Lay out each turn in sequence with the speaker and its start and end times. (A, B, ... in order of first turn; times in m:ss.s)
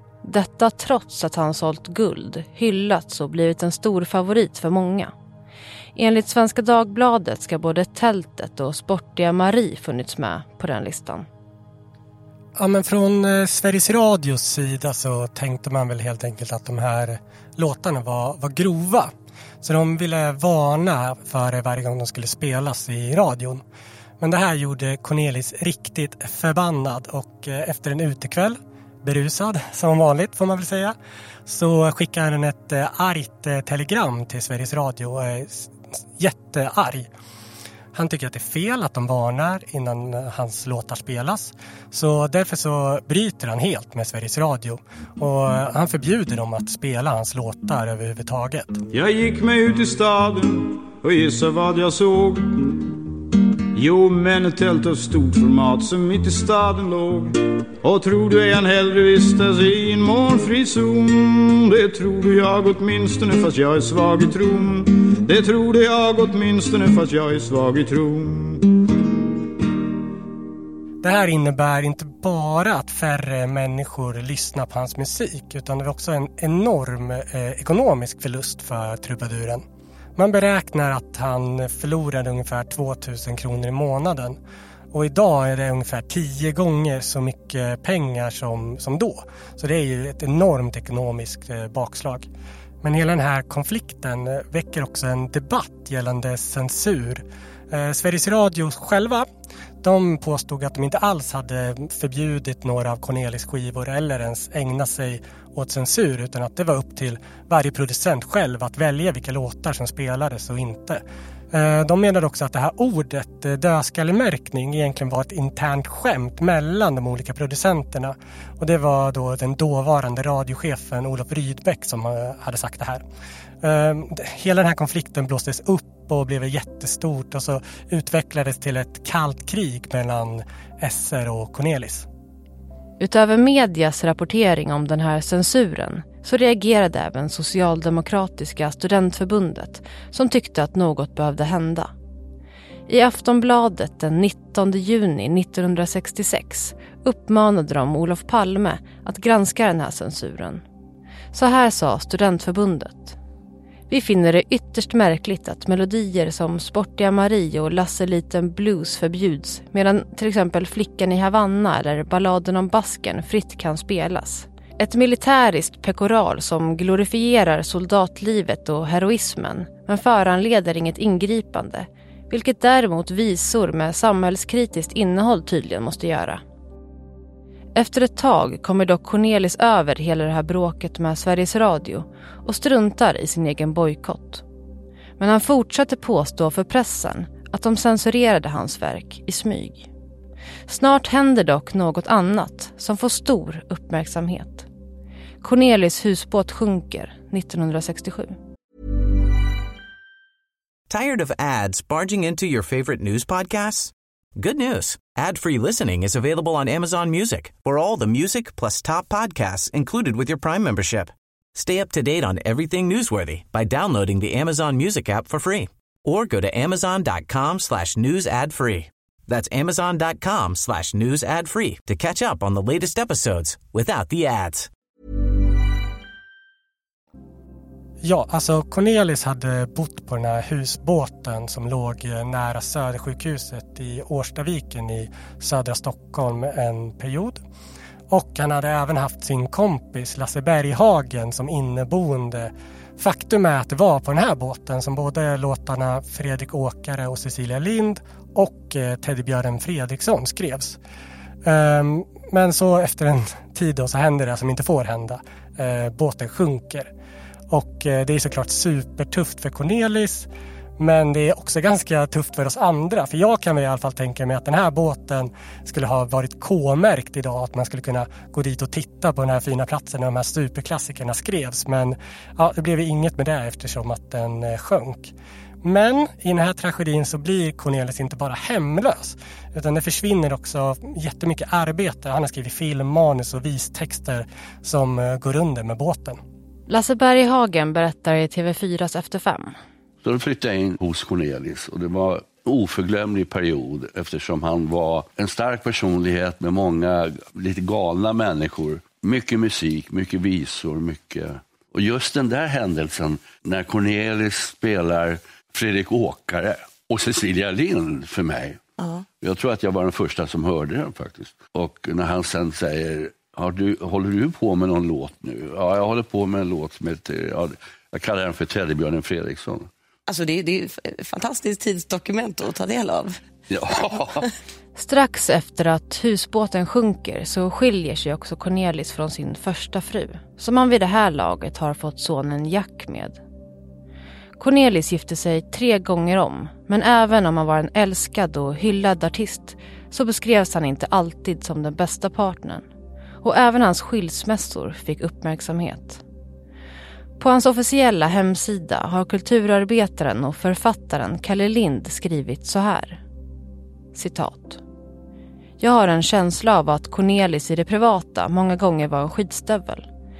0:00.2-0:05.1 A
0:06.0-0:11.3 A
0:12.6-0:23.6 B
0:24.2-0:37.1 B
0:37.9-0:48.8 B
0:48.9-0:52.9 C
0:53.7-1:08.8 C
1:11.0-1:19.6 B
1:20.2-1:24.4 B
1:24.9-1:32.3 B
1:32.8-1:39.3 B
1:39.8-1:51.0 B
1:51.5-2:03.0 B
2:03.6-2:12.1 B
2:13.0-2:21.9 A
2:22.9-2:30.6 A
2:31.3-2:33.2 A
2:33.9-2:56.4 A
2:57.8-3:04.4 A
3:05.2-3:09.9 A
3:10.7-3:14.7 A
3:15.4-3:18.3 A
3:20.9-3:44.7 D
3:48.0-3:57.4 B
3:58.1-4:10.8 B
4:11.4-4:16.9 B
4:17.5-4:20.3 B
4:20.8-4:46.2 B
4:46.7-4:49.5 A
4:50.0-5:08.7 E
5:08.8-5:09.0 F
5:09.2-5:19.7 E
5:20.1-5:23.2 F
5:23.5-5:24.3 E
5:24.8-5:33.2 A
5:34.4-5:42.6 A
5:43.2-5:46.0 A
5:47.2-5:53.0 A
5:53.9-5:54.6 A
5:55.6-5:59.9 A